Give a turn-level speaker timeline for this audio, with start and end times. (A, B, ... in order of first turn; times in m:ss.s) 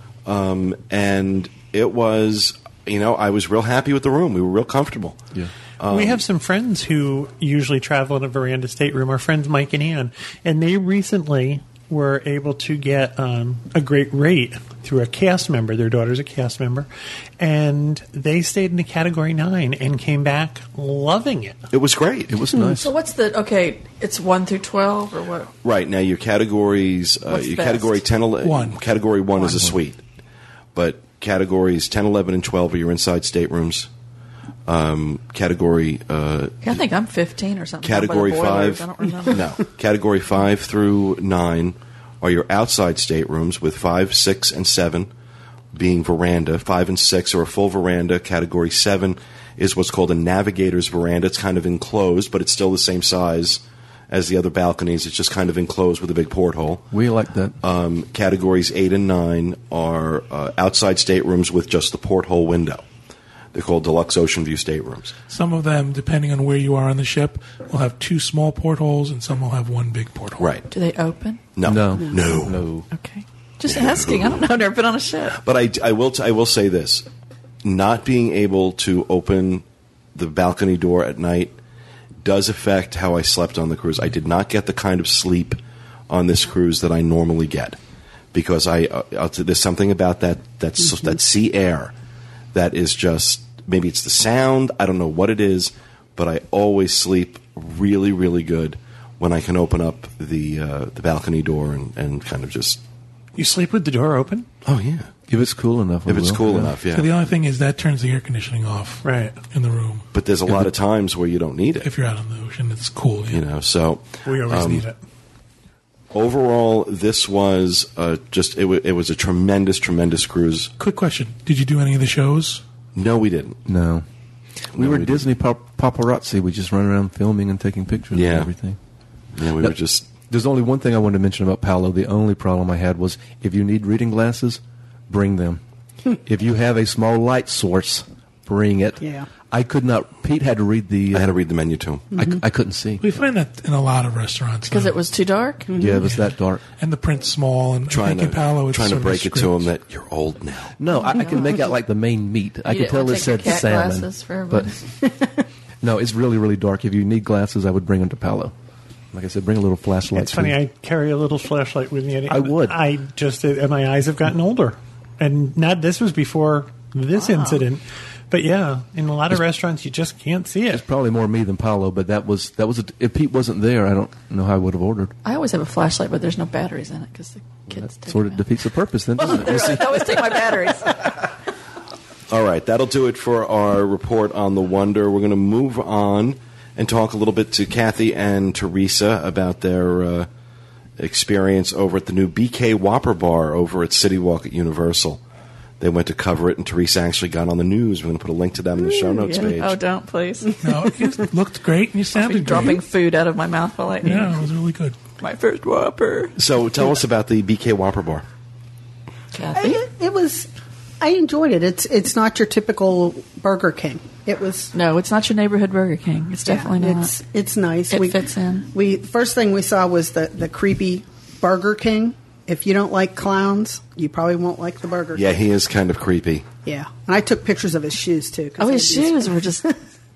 0:00.2-0:05.2 A
0:05.8-0:06.2 A
0:05.9-0:16.9 B
0:17.4-0:21.6 B
0:21.7-0:22.3 A
0:22.3-0:22.9 C
0:22.7-0:25.5 D
0:25.6-0:30.0 A
0:27.3-0:28.0 D
0:28.4-0:28.8 E
0:29.4-0:29.7 C
0:30.7-0:33.9 A
0:34.7-0:36.8 A
0:36.6-0:39.5 D
0:37.8-0:45.1 A
0:45.7-0:56.9 A
0:56.9-0:57.5 C
0:57.6-1:02.8 A
1:03.5-1:05.1 A
1:05.3-1:10.4 E
1:10.4-1:10.6 A
1:10.7-1:11.4 D
1:11.5-1:12.6 A
1:11.6-1:12.9 C
1:12.9-1:15.4 D
1:13.7-1:14.4 A
1:15.4-1:17.1 A
1:17.6-1:19.6 A
1:20.1-1:21.5 A
1:22.2-1:27.8 A
1:28.3-1:31.9 A
1:32.5-1:42.8 A
1:43.4-1:44.5 B
1:44.6-1:45.1 A
1:45.3-1:46.7 C
1:46.0-1:47.1 A
1:46.9-1:50.1 E
1:49.0-1:49.4 B
1:50.1-1:51.9 A
1:51.8-1:53.4 E
1:53.3-1:54.8 A
1:54.2-1:55.0 B
1:56.1-2:00.7 A
2:00.8-2:02.6 E
2:02.9-2:03.6 A
2:03.6-2:04.0 C
2:04.7-2:05.3 A
2:04.7-2:08.8 C
2:08.1-2:08.5 A
2:09.3-2:10.1 A
2:09.6-2:15.6 C
2:16.1-2:21.3 C
2:19.0-2:19.3 F
2:21.1-2:22.1 A
2:22.1-2:22.4 F
2:22.1-2:23.0 C
2:23.0-2:25.0 E
2:24.6-2:25.8 D
2:25.7-2:26.1 F
2:25.8-2:26.6 C
2:26.0-2:29.7 E
2:27.9-2:30.8 A
2:30.8-2:34.8 C
2:31.1-2:31.5 D
2:32.6-2:34.8 D
2:35.8-2:38.5 C
2:39.1-2:40.6 C
2:40.1-2:50.8 B
2:42.3-2:42.8 C
2:47.2-2:47.6 D
2:50.7-2:55.1 C
2:55.2-2:58.4 D
2:57.7-3:00.2 C
2:59.2-3:01.1 D
3:02.3-3:10.3 A
3:11.0-3:15.2 A
3:15.8-3:19.8 A
3:19.0-3:20.6 D
3:20.6-3:22.8 E
3:22.1-3:24.4 D
3:24.0-3:25.0 E
3:25.2-3:26.3 D
3:26.4-3:28.2 A
3:29.3-3:29.8 D
3:29.5-3:30.5 F
3:31.0-3:34.7 F
3:34.7-3:37.1 D
3:36.4-3:45.3 F
3:37.9-3:38.7 D
3:45.1-3:46.4 A
3:46.6-3:49.7 F
3:48.6-3:49.8 D